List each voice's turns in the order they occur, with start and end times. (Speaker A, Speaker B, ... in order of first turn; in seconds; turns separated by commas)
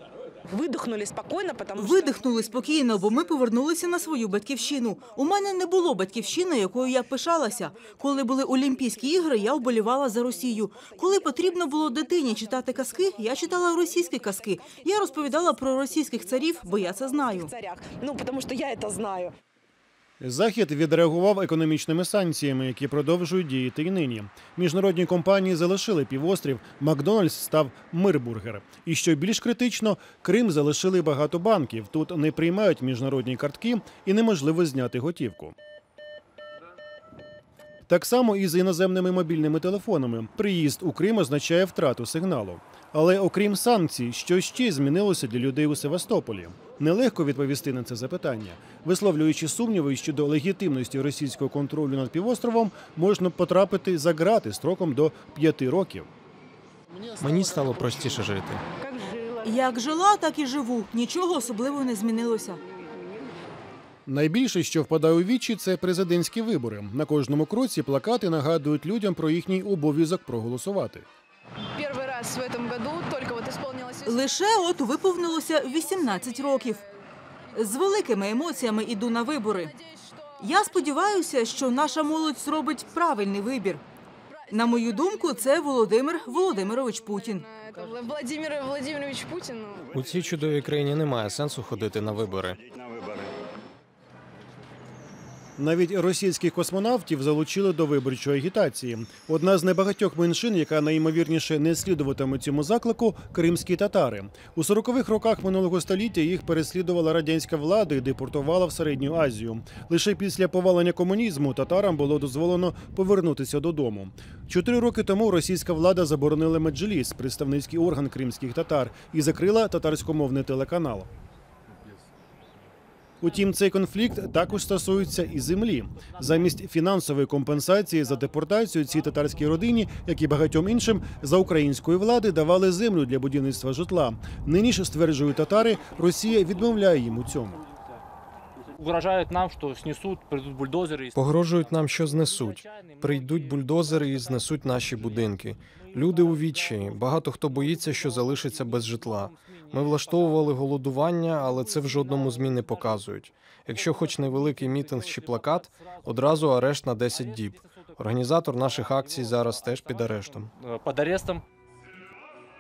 Speaker A: 0.5-2.2, Speaker B: 1.8-17.5, Speaker A: 10.7-19.3, Speaker C: 20.2-35.5, Speaker C: 37.9-56.1, Speaker C: 56.9-58.3, Speaker D: 57.2-58.6, Speaker B: 59.4-62.6, Speaker C: 64.1-71.0, Speaker E: 71.8-74.2, Speaker B: 74.0-76.8, Speaker E: 75.7-76.8, Speaker B: 77.5-79.7, Speaker E: 79.7-80.6, Speaker B: 80.4-83.8, Speaker E: 84.4-89.9, Speaker B: 84.5-87.5, Speaker D: 89.9-92.6, Speaker C: 95.6-121.1, Speaker C: 123.2-137.6, Speaker F: 138.8-145.2, Speaker D: 141.1-160.5, Speaker F: 145.9-150.4, Speaker F: 151.5-153.0, Speaker F: 153.8-161.4